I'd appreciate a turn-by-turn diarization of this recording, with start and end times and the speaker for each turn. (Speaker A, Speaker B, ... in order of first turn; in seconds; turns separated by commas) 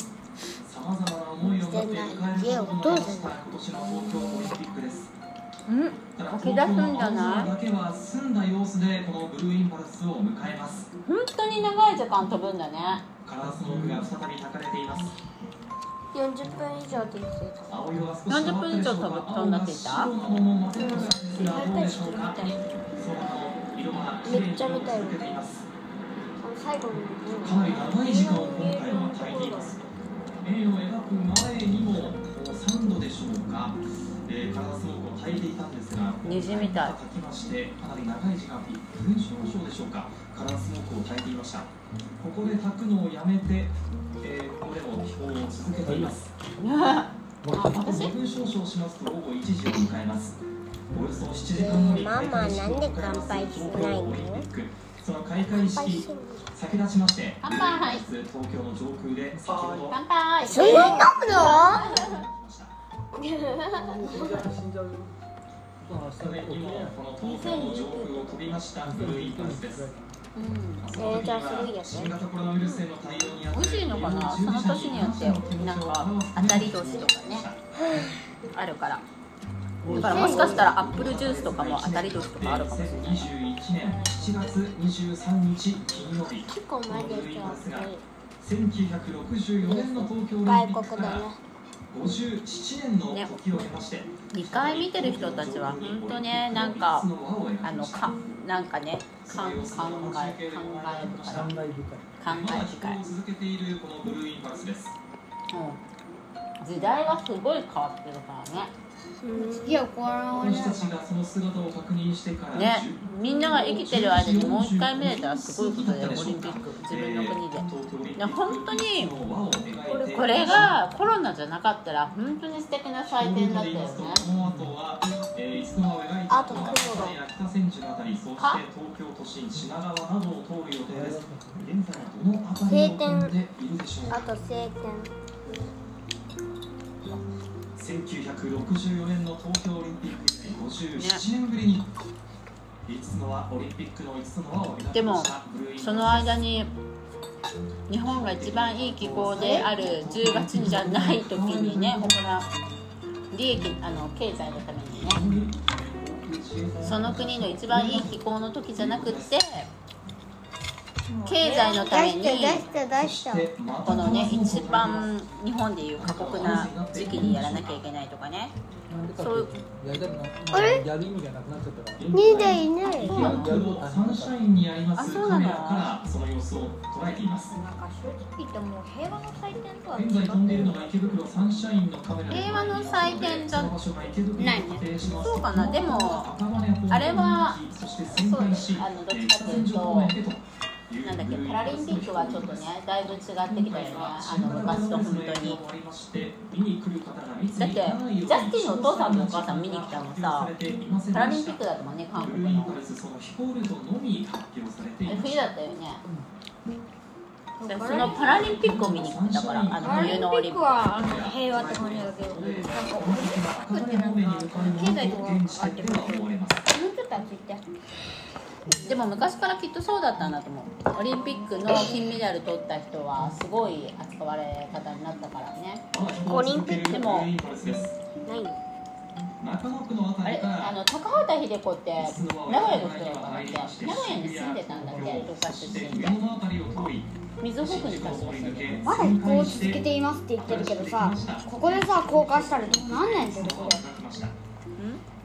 Speaker A: 0.6-5.1, Speaker B: 1.4-3.4, Speaker C: 5.7-7.5, Speaker A: 6.2-10.9, Speaker C: 11.1-13.1, Speaker A: 13.2-15.1, Speaker B: 16.1-17.8, Speaker A: 17.6-25.7, Speaker C: 18.3-20.1, Speaker B: 20.7-22.6, Speaker B: 24.2-25.2, Speaker B: 26.4-29.8, Speaker A: 27.4-29.8, Speaker A: 30.4-46.3, Speaker C: 36.2-37.0, Speaker D: 45.8-46.2, Speaker C: 46.6-48.1, Speaker D: 47.4-47.7, Speaker A: 47.7-50.4, Speaker A: 50.9-60.0, Speaker B: 51.5-54.4, Speaker B: 55.4-56.5, Speaker C: 57.4-58.1, Speaker D: 59.3-60.8, Speaker C: 59.8-62.2, Speaker B: 60.4-61.9, Speaker A: 60.6-62.7, Speaker B: 63.1-64.5, Speaker D: 63.8-65.1, Speaker D: 65.8-67.0, Speaker A: 66.2-69.9, Speaker B: 67.2-68.5, Speaker D: 68.8-70.1, Speaker C: 70.3-70.9, Speaker A: 70.8-77.6, Speaker B: 71.0-72.8, Speaker C: 73.5-77.5, Speaker C: 78.5-79.0, Speaker D: 79.8-80.6, Speaker C: 79.9-83.3, Speaker B: 79.9-80.7, Speaker A: 80.1-91.3, Speaker B: 86.5-88.0, Speaker B: 89.6-91.4, Speaker A: 91.9-98.1, Speaker C: 94.3-97.1, Speaker C: 97.6-101.5, Speaker A: 99.2-101.6, Speaker D: 101.3-102.2, Speaker C: 102.2-103.0, Speaker A: 102.2-105.0, Speaker C: 105.5-105.8, Speaker C: 106.6-108.7, Speaker B: 109.2-109.8, Speaker E: 109.3-111.0, Speaker A: 110.3-120.7, Speaker C: 112.5-119.1, Speaker B: 119.9-120.6, Speaker C: 120.1-124.2, Speaker A: 123.1-134.3, Speaker D: 124.4-124.7, Speaker B: 126.3-127.2, Speaker C: 128.4-128.6, Speaker D: 130.9-131.7, Speaker B: 132.6-133.3, Speaker B: 134.1-135.1, Speaker A: 137.8-141.9, Speaker C: 140.9-141.2, Speaker A: 142.8-146.4, Speaker C: 144.9-146.7, Speaker C: 147.9-152.5, Speaker A: 148.0-152.2, Speaker C: 153.3-155.2, Speaker A: 155.1-158.1, Speaker C: 156.8-159.7, Speaker A: 158.7-159.3, Speaker E: 161.1-161.9, Speaker C: 161.2-162.7, Speaker B: 161.6-163.5, Speaker A: 162.9-165.1, Speaker C: 163.8-168.5, Speaker A: 166.0-167.8, Speaker D: 168.9-172.1, Speaker C: 169.2-169.5, Speaker B: 170.5-170.8, Speaker A: 172.0-177.5, Speaker B: 172.1-173.3, Speaker C: 173.0-173.6, Speaker D: 173.1-174.4, Speaker C: 175.0-175.9, Speaker E: 177.5-180.5, Speaker A: 179.9-192.8, Speaker D: 180.5-180.8, Speaker C: 182.3-183.7, Speaker E: 184.4-184.8, Speaker C: 185.1-186.3, Speaker C: 186.9-190.2, Speaker C: 191.0-195.6, Speaker A: 193.4-201.6, Speaker C: 197.6-200.5, Speaker C: 201.1-202.8, Speaker A: 202.2-205.4, Speaker C: 205.1-206.0, Speaker E: 207.6-208.6, Speaker C: 207.6-210.9, Speaker A: 207.9-210.3, Speaker E: 209.8-216.2, Speaker A: 210.9-216.7, Speaker C: 212.3-212.8, Speaker E: 216.7-217.6, Speaker C: 218.8-225.8, Speaker E: 221.1-221.7, Speaker A: 225.9-228.0, Speaker B: 226.2-227.0, Speaker C: 226.9-227.3, Speaker B: 228.2-228.6, Speaker A: 229.4-230.8, Speaker C: 230.2-236.2, Speaker A: 232.0-244.3, Speaker C: 237.4-239.0, Speaker E: 238.8-243.8, Speaker C: 244.8-245.0